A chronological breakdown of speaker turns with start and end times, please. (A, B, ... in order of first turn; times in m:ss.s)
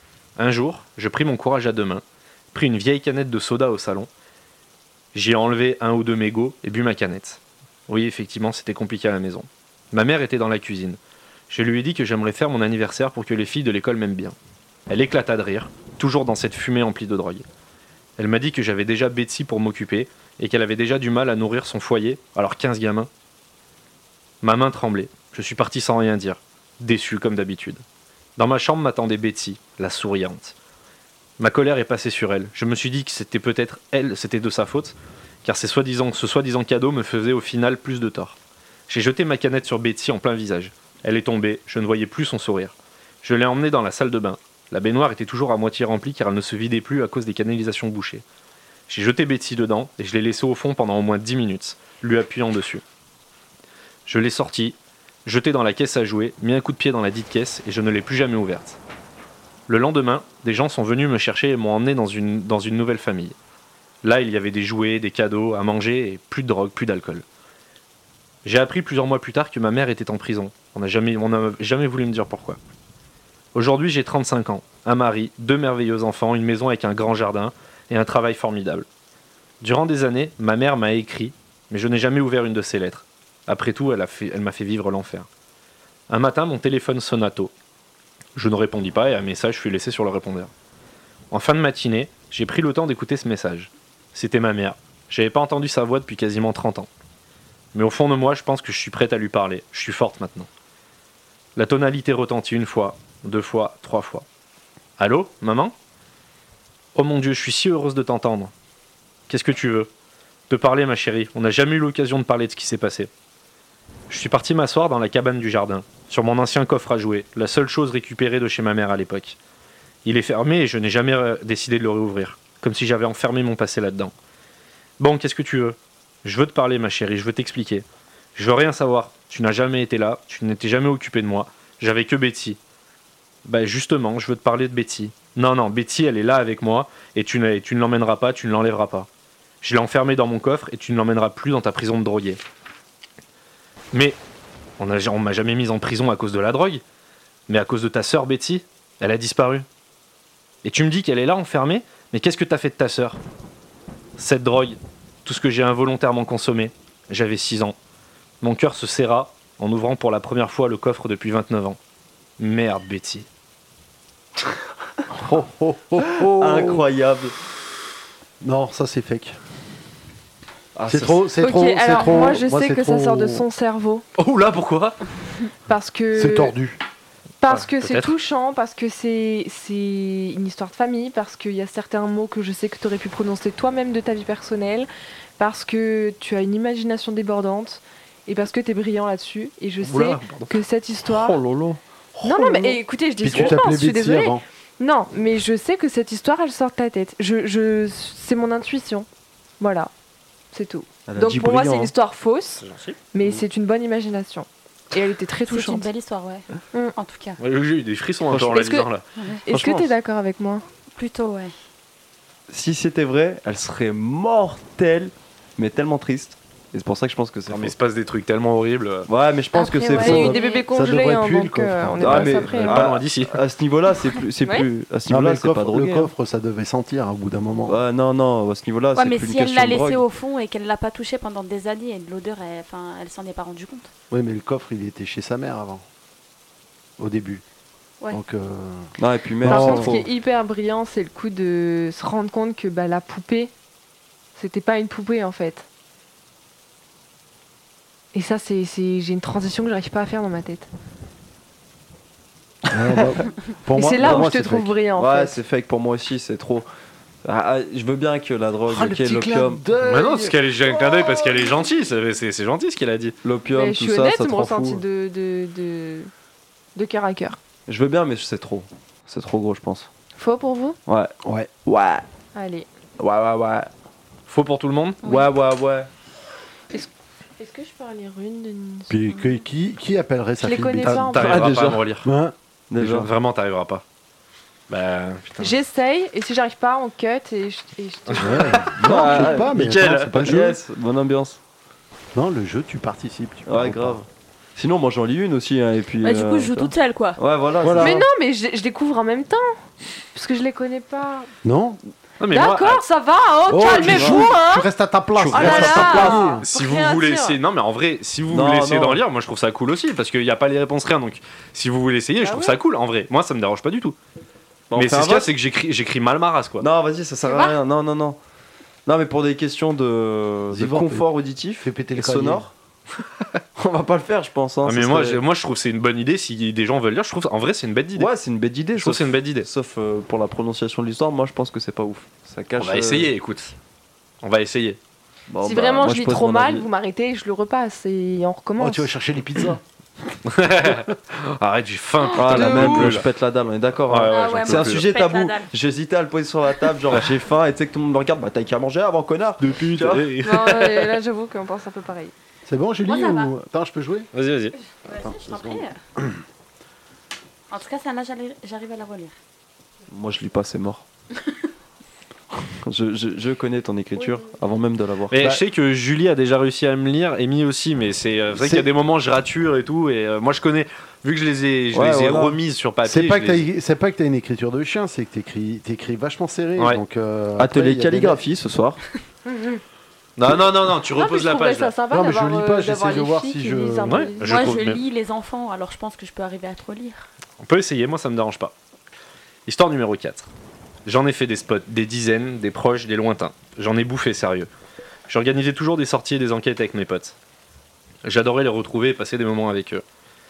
0:00.4-0:04.1 A
0:05.1-0:11.0 A
0:11.5-0:14.3 A
0:14.9-0:17.4 A
0:18.2-0:23.1 A
0:24.4-0:27.8 A
0:28.4-0:30.5 A
0:31.4-0:38.4 A
0:38.9-0:48.2 A
0:48.9-0:52.8 A
0:54.0-0:58.8 A
0:59.7-1:03.4 A
1:04.0-1:07.2 A
1:08.4-1:12.6 A
1:13.5-1:18.8 A
1:19.6-1:25.3 A
1:26.1-1:27.5 A
1:28.4-1:30.5 A
1:31.3-1:36.9 A
1:37.7-1:40.5 A
1:41.6-1:44.2 A
1:45.0-1:45.7 A
1:46.9-1:48.5 A
1:49.3-1:49.9 A
1:50.5-1:53.1 A
1:54.1-1:59.4 A
2:00.0-2:04.1 A
2:05.0-2:12.6 A
2:13.4-2:19.1 A
2:19.6-2:22.4 A
2:23.9-2:24.2 A
2:24.8-2:26.8 A
2:27.5-2:29.6 A
2:30.6-2:33.2 A
2:34.2-2:37.8 A
2:38.4-2:41.8 A
2:42.4-2:43.3 A
2:45.1-2:46.8 B
2:46.0-2:47.3 C
2:48.4-2:49.4 B
2:50.7-2:51.3 C
2:50.9-2:53.4 B
2:51.4-2:54.0 D
2:54.2-2:55.0 A
2:55.7-2:56.5 D
2:56.1-2:56.8 B
2:57.4-3:11.4 D
2:57.5-2:58.1 A
3:09.8-3:10.5 A
3:11.0-3:12.8 C
3:12.2-3:19.1 D
3:13.2-3:14.4 B
3:19.6-3:19.9 D
3:20.5-3:25.9 D
3:21.1-3:21.9 C
3:22.6-3:23.0 A
3:25.5-3:26.4 E
3:27.0-3:27.4 E
3:27.4-3:29.0 A
3:28.3-3:28.6 C
3:28.5-3:28.9 D
3:29.5-3:30.6 D
3:29.5-3:29.9 C
3:31.0-3:31.5 E
3:32.5-3:37.7 C
3:37.5-3:39.1 A
3:39.1-3:40.4 C
3:39.5-3:40.7 E
3:39.9-3:42.8 D
3:40.0-3:42.8 B
3:42.0-3:46.1 C
3:42.6-3:43.4 A
3:45.1-3:47.8 B
3:47.6-3:50.0 C
3:48.9-3:53.9 E
3:54.1-3:55.8 B
3:57.0-3:57.4 B
3:58.1-3:58.9 B
3:59.0-4:00.0 C
3:59.4-4:00.0 B
3:59.4-4:03.5 D
4:04.4-4:05.6 D
4:08.1-4:10.7 D
4:12.7-4:14.7 B
4:13.8-4:15.4 D
4:14.0-4:14.3 C
4:15.0-4:16.7 C
4:17.2-4:19.6 C
4:18.7-4:21.4 B
4:19.8-4:23.2 A
4:23.2-4:24.8 C
4:23.5-4:26.1 D
4:26.8-4:27.4 D
4:27.7-4:29.9 C
4:30.2-4:30.8 D
4:30.9-4:31.1 C
4:31.2-4:31.5 B
4:31.6-4:32.0 C
4:32.3-4:32.7 D
4:33.0-4:33.7 C
4:34.3-4:35.0 A
4:35.0-4:35.9 C
4:36.7-4:39.0 D
4:38.9-4:42.3 B
4:40.4-4:41.3 D
4:40.8-4:42.1 A
4:41.1-4:41.8 C
4:42.7-4:43.1 C
4:42.8-4:43.8 A
4:44.7-4:45.5 A
4:45.4-4:49.4 D
4:48.1-4:48.7 A
4:48.2-4:50.6 B
4:48.8-4:51.4 C
4:49.6-4:50.2 A
4:52.1-4:54.0 B
4:53.4-4:58.0 C
4:56.0-4:57.2 E
4:57.6-4:58.0 B
4:57.8-4:59.6 D
5:00.1-5:01.3 D
5:01.4-5:01.8 B
5:02.2-5:02.8 A
5:02.3-5:04.7 D
5:03.5-5:06.4 B
5:03.6-5:04.3 C
5:05.2-5:14.0 A
5:05.3-5:06.2 C
5:05.3-5:07.4 D
5:08.3-5:09.0 C
5:12.2-5:12.6 D
5:14.7-5:15.3 C
5:14.7-5:16.6 A
5:16.6-5:18.2 C
5:18.8-5:22.5 C
5:20.5-5:21.1 B
5:21.6-5:22.5 B
5:23.6-5:25.2 C
5:24.6-5:28.1 A
5:28.0-5:33.1 C
5:28.8-5:29.5 A
5:32.6-5:33.5 A
5:34.2-5:34.8 A
5:35.3-5:36.7 C
5:35.4-5:38.9 D
5:38.6-5:39.6 B
5:40.3-5:43.0 A
5:42.2-5:50.1 C
5:42.4-5:42.8 D
5:43.9-5:44.9 A
5:44.1-5:45.5 E
5:49.4-5:50.9 A
5:50.2-5:52.1 D
5:52.4-5:54.1 B
5:52.8-5:53.3 E
5:54.1-5:54.6 A
5:54.7-5:55.8 E
5:54.9-5:55.6 B
5:57.5-5:59.1 E
5:59.9-6:00.8 C
6:02.5-6:05.2 C
6:05.1-6:13.4 A
6:08.3-6:08.7 B
6:11.7-6:12.4 C
6:12.8-6:18.2 B
6:17.4-6:18.8 C
6:19.3-6:19.6 D
6:20.2-6:21.7 A
6:21.0-6:24.4 D
6:21.9-6:24.1 B
6:23.9-6:24.8 A
6:24.2-6:27.1 E
6:27.4-6:28.5 A
6:29.4-6:30.3 A
6:30.8-6:34.5 A
6:35.1-6:37.2 A
6:38.0-6:39.8 A